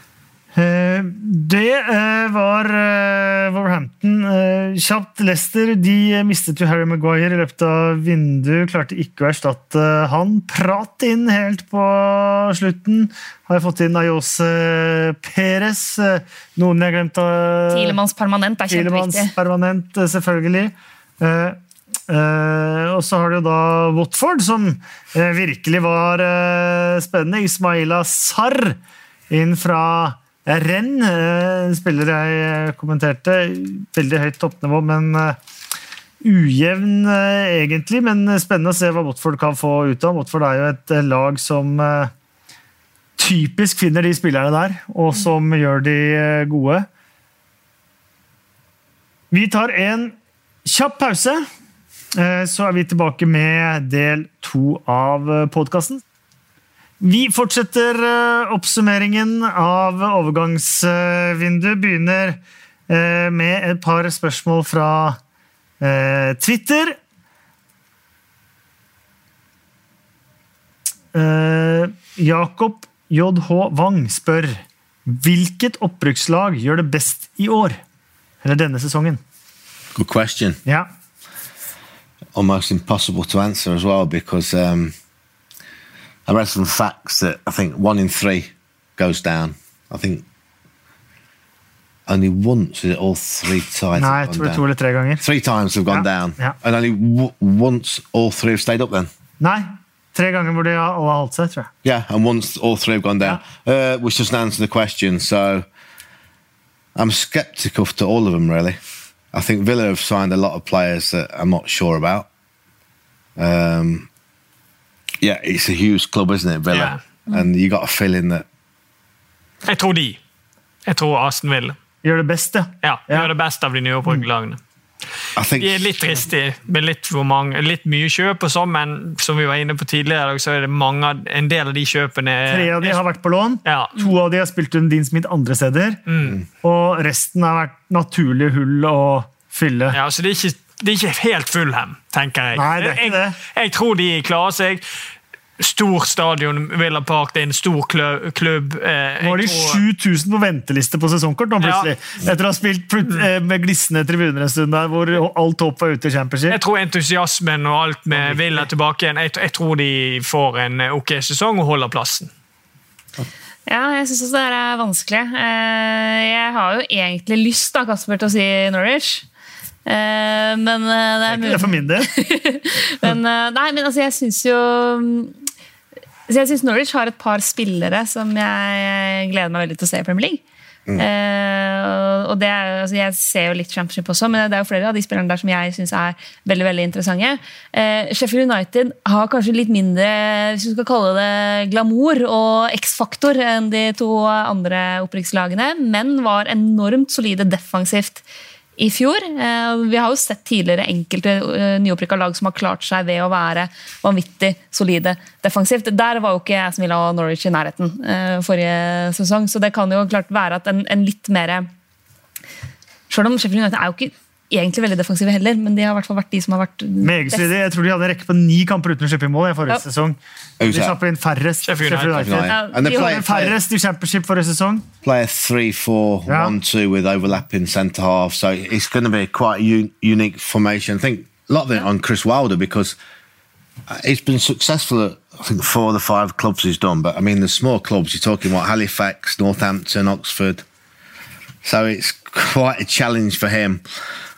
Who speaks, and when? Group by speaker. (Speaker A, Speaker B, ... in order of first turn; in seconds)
Speaker A: 0.5-18.0, 18.7-28.8, 29.3-35.4, 36.2-42.1, 43.2-46.9, 49.3-51.5, 52.1-56.0, 57.0-65.2, 65.8-67.0, 71.1-77.8, 78.4-79.2, 94.0-95.2, 95.9-96.5, 99.4-101.7, 122.0-123.3, 132.5-136.0, 136.6-140.0, 142.5-143.4, 149.2-156.6, 158.1-158.7, 171.3-172.1, 217.0-224.9, 226.3-226.5
Speaker B: 17.7-19.3, 163.7-169.2, 169.8-175.3, 176.3-180.4, 181.0-198.2, 198.8-211.7, 213.1-217.5, 222.5-223.4
Speaker C: 79.9-80.6, 82.3-84.9, 86.2-90.2, 92.1-94.6, 95.2-99.1, 101.8-105.7, 107.0-108.8, 109.3-112.2, 113.4-114.1, 115.2-118.4, 125.3-126.0, 220.6-220.9, 222.2-223.6, 225.0-232.9, 233.9-240.6, 241.6-243.8
Speaker D: 116.7-117.0, 119.6-120.2, 120.8-121.8, 122.8-124.6, 125.6-133.0, 133.6-134.0, 136.1-136.4, 139.9-144.8, 145.6-149.8, 151.6-151.9, 156.5-162.3, 221.6-222.3